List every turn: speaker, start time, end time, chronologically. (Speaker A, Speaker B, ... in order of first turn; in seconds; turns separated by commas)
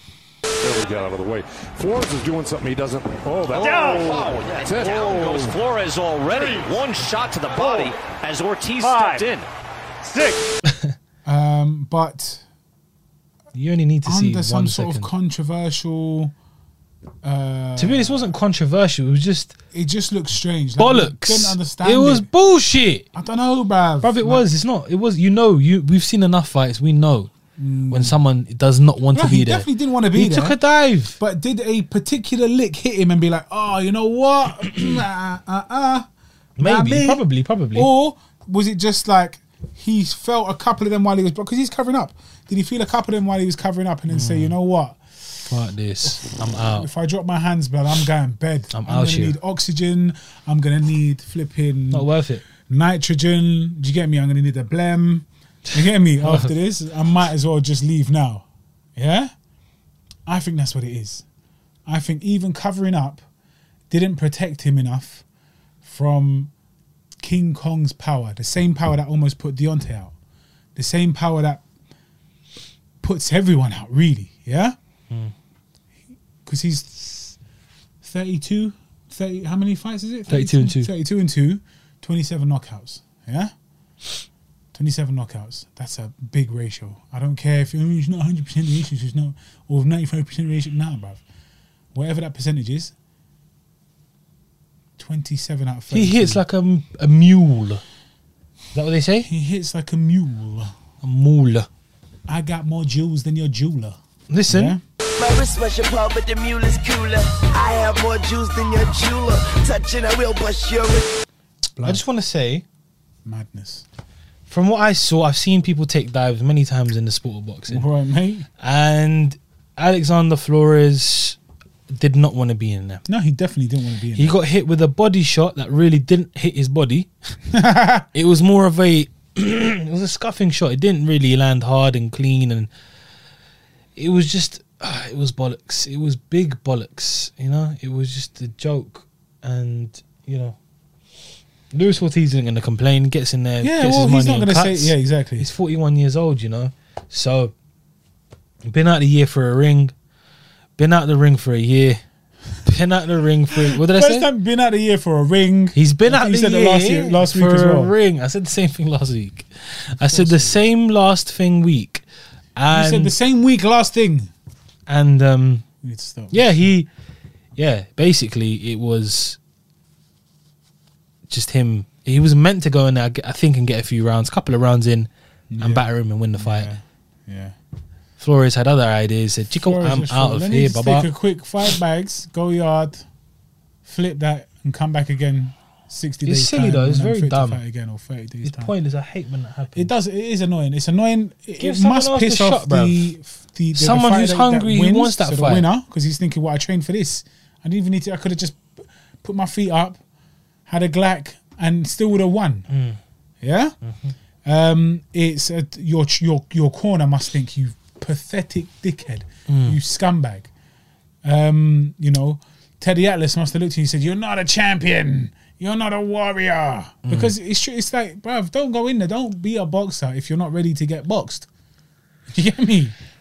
Speaker A: 0.6-5.6, Speaker B: 3.5-9.5, Speaker A: 6.3-6.8, Speaker A: 7.5-8.0, Speaker A: 8.8-9.3, Speaker A: 10.0-10.4, Speaker C: 11.2-12.4, Speaker D: 13.5-15.1, Speaker C: 14.0-16.3, Speaker C: 17.2-18.4, Speaker D: 17.8-19.6, Speaker C: 19.7-22.3, Speaker D: 20.8-23.1, Speaker C: 23.1-24.5, Speaker D: 24.0-27.3, Speaker C: 27.6-28.2, Speaker D: 27.9-31.2, Speaker C: 29.1-30.6, Speaker C: 31.2-36.1, Speaker D: 36.6-37.9, Speaker C: 36.6-45.3, Speaker D: 44.1-44.6, Speaker D: 45.4-46.9, Speaker C: 46.0-58.5, Speaker D: 48.7-49.4, Speaker D: 51.9-52.5, Speaker D: 55.7-56.5, Speaker C: 59.0-59.3, Speaker C: 60.3-61.2, Speaker C: 61.9-63.2, Speaker C: 63.9-65.2, Speaker C: 65.8-66.5, Speaker C: 67.2-70.1, Speaker C: 70.8-71.6, Speaker C: 73.0-74.8, Speaker C: 76.5-77.4, Speaker C: 78.0-83.5, Speaker D: 80.3-80.9, Speaker C: 84.7-91.2, Speaker C: 91.9-92.9, Speaker C: 95.0-96.4, Speaker D: 95.9-97.8, Speaker D: 98.7-99.3, Speaker C: 99.2-100.7, Speaker D: 101.0-101.7, Speaker C: 102.3-104.8, Speaker D: 104.3-104.8, Speaker E: 105.2-111.0, Speaker C: 111.8-112.0, Speaker D: 111.8-112.6, Speaker C: 113.2-113.8, Speaker D: 114.5-117.9, Speaker C: 117.7-118.5, Speaker D: 118.6-121.4, Speaker D: 121.9-123.0, Speaker C: 123.1-124.3, Speaker D: 124.2-127.1, Speaker C: 127.5-128.1, Speaker D: 128.1-132.7, Speaker D: 134.0-140.6, Speaker D: 141.7-147.5, Speaker C: 143.6-145.5, Speaker D: 148.7-149.9, Speaker D: 150.8-152.0, Speaker D: 152.6-154.3, Speaker C: 153.5-157.9, Speaker D: 155.8-162.1, Speaker C: 160.0-160.6, Speaker D: 162.6-163.2, Speaker C: 162.7-164.3, Speaker D: 164.9-165.7, Speaker C: 165.8-166.7, Speaker D: 166.3-166.9, Speaker D: 167.6-169.4, Speaker D: 171.3-176.7, Speaker C: 175.5-177.6, Speaker D: 178.2-181.1, Speaker C: 179.5-183.1, Speaker C: 183.8-188.7, Speaker D: 186.2-187.6, Speaker D: 188.4-189.9, Speaker C: 189.8-200.0, Speaker D: 191.6-193.1, Speaker D: 193.8-195.7, Speaker C: 200.7-202.7, Speaker D: 202.7-203.0, Speaker C: 203.4-203.8, Speaker D: 203.8-204.1, Speaker C: 204.4-210.5, Speaker D: 209.5-209.8, Speaker C: 211.2-221.5, Speaker D: 217.1-217.3, Speaker C: 222.3-222.9